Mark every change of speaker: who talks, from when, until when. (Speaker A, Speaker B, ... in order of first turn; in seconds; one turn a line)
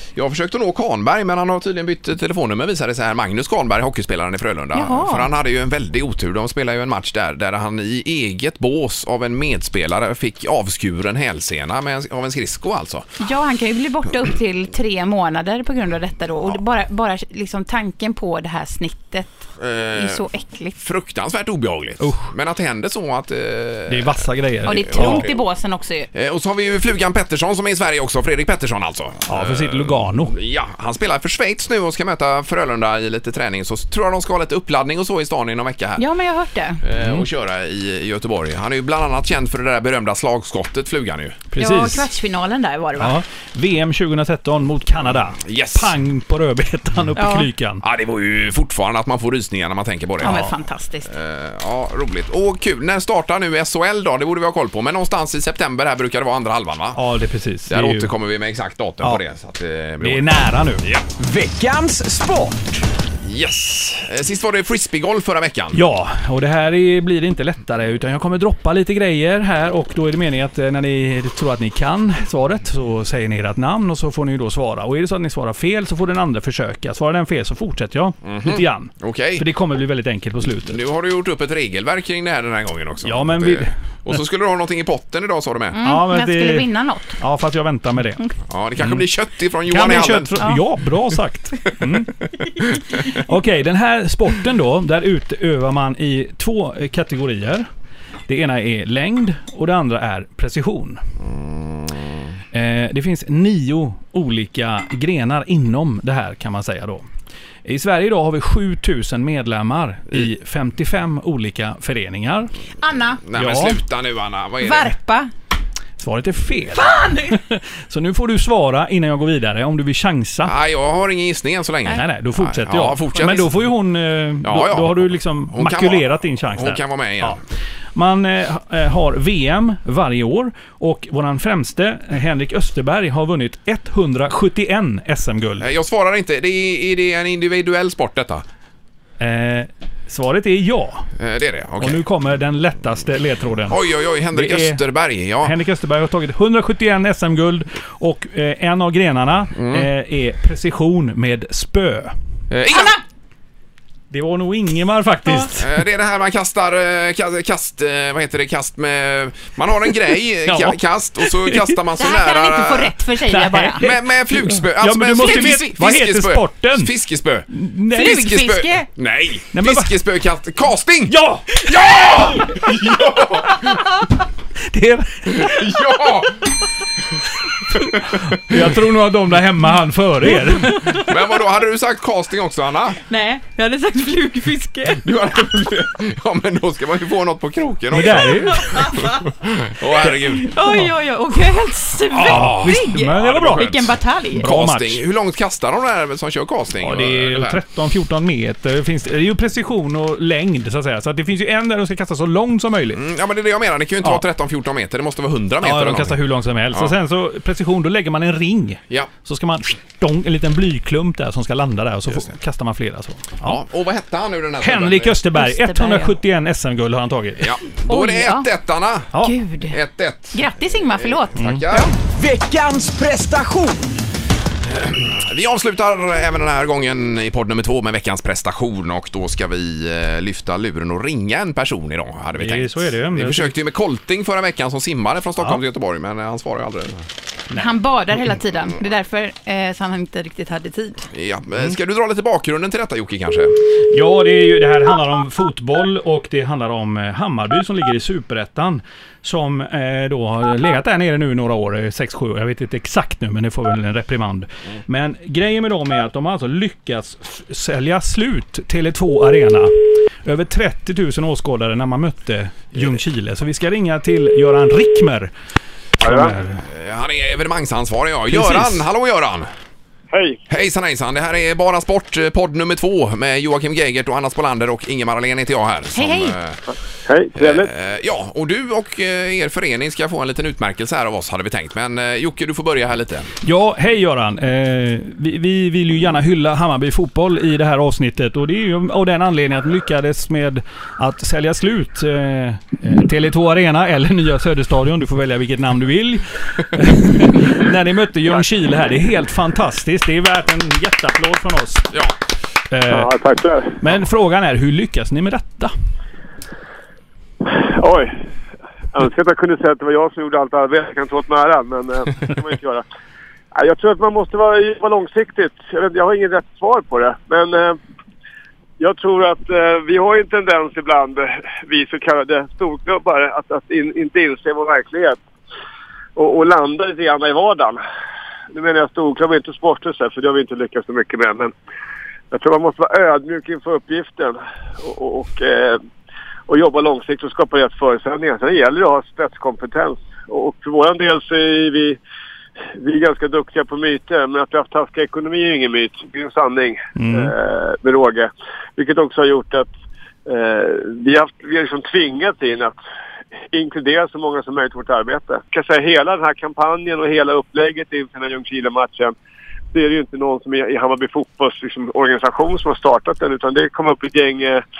Speaker A: 0.1-13.1
Speaker B: 4.7-5.3
Speaker B: 13.2-20.8
Speaker A: 19.6-20.2
Speaker A: 20.8-24.2
Speaker C: 22.0-22.3
Speaker C: 23.9-25.2
Speaker B: 24.6-26.1
Speaker A: 24.9-25.4
Speaker A: 26.1-36.0
Speaker C: 29.3-30.3
Speaker B: 36.0-36.8
Speaker A: 36.8-41.4
Speaker C: 37.0-37.2
Speaker C: 41.5-42.0
Speaker B: 41.6-43.2
Speaker C: 43.0-47.8
Speaker A: 45.4-45.9
Speaker B: 47.2-47.5
Speaker A: 47.8-50.5
Speaker B: 50.2-51.1
Speaker C: 50.2-50.5
Speaker A: 51.0-57.0
Speaker C: 56.9-58.1
Speaker A: 57.7-60.3
Speaker C: 60.0-60.8
Speaker A: 60.8-61.1
Speaker D: 61.2-62.8
Speaker A: 63.2-65.8
Speaker C: 65.7-80.8
Speaker A: 78.2-79.4
Speaker A: 80.7-85.8
Speaker C: 83.0-83.8
Speaker B: 85.7-87.2
Speaker C: 85.8-86.7
Speaker C: 87.2-88.2
Speaker A: 88.5-90.4
Speaker C: 89.7-92.1
Speaker C: 92.9-97.7
Speaker C: 98.3-101.0
Speaker A: 101.2-102.0
Speaker C: 102.5-107.0
Speaker C: 107.6-112.5
Speaker B: 112.8-113.2
Speaker A: 113.2-114.9
Speaker C: 113.3-113.8
Speaker B: 114.6-115.3
Speaker C: 116.0-120.5
Speaker B: 116.7-117.4
Speaker A: 120.4-123.5
Speaker C: 121.9-127.4
Speaker A: 124.4-127.4
Speaker C: 127.9-135.7
Speaker A: 135.6-138.4
Speaker C: 139.2-141.1
Speaker A: 141.2-142.0
Speaker C: 141.8-143.8
Speaker A: 143.7-145.5
Speaker C: 144.3-144.8
Speaker C: 145.4-152.1
Speaker A: 149.5-149.9
Speaker A: 152.5-153.0
Speaker B: 152.7-153.0
Speaker C: 154.1-155.7
Speaker A: 155.5-163.0
Speaker C: 160.4-161.8
Speaker B: 162.0-163.9
Speaker C: 163.3-166.9
Speaker A: 163.8-173.8
Speaker C: 167.5-168.3
Speaker B: 167.9-168.9
Speaker C: 169.5-169.9
Speaker C: 171.1-171.7
Speaker B: 173.7-174.0
Speaker C: 174.6-175.7
Speaker A: 175.2-176.5
Speaker C: 177.7-180.9
Speaker A: 178.2-178.7
Speaker B: 180.6-181.1
Speaker A: 180.9-183.0
Speaker B: 183.1-185.1
Speaker A: 185.0-190.5
Speaker C: 187.9-188.7
Speaker B: 188.0-189.2
Speaker B: 190.2-194.5
Speaker C: 190.6-190.9
Speaker C: 192.1-193.7
Speaker A: 192.2-193.8
Speaker C: 194.3-195.0
Speaker A: 194.4-197.6
Speaker C: 196.8-203.0
Speaker A: 202.9-206.1
Speaker C: 205.6-213.6
Speaker A: 213.4-215.2
Speaker C: 214.6-217.5
Speaker B: 215.3-216.1
Speaker A: 217.4-219.1
Speaker B: 217.9-218.5
Speaker B: 219.2-219.8
Speaker A: 219.7-220.4
Speaker B: 220.3-221.9
Speaker A: 220.9-221.9
Speaker C: 221.3-221.6
Speaker D: 222.1-223.9
Speaker A: 224.6-237.1
Speaker C: 232.3-233.5
Speaker B: 237.5-241.1
Speaker A: 241.1-243.5
Speaker C: 243.9-265.3
Speaker C: 266.0-266.6
Speaker E: 266.0-266.3
Speaker A: 266.6-269.5
Speaker C: 268.3-268.8
Speaker E: 270.1-270.4
Speaker A: 270.5-276.6
Speaker B: 275.9-276.4
Speaker E: 277.1-277.7
Speaker A: 277.4-283.3
Speaker C: 283.4-301.9
Speaker C: 302.7-303.1
Speaker E: 302.9-303.7
Speaker C: 303.8-305.7
Speaker E: 307.4-308.1
Speaker E: 308.9-312.8
Speaker E: 313.5-317.8
Speaker E: 318.8-325.2
Speaker E: 326.1-327.8
Speaker E: 328.5-331.5
Speaker E: 332.3-335.8
Speaker E: 336.5-342.0
Speaker E: 342.7-349.7
Speaker C: 346.9-347.3
Speaker E: 350.2-352.8
Speaker E: 353.5-359.1
Speaker E: 359.7-364.6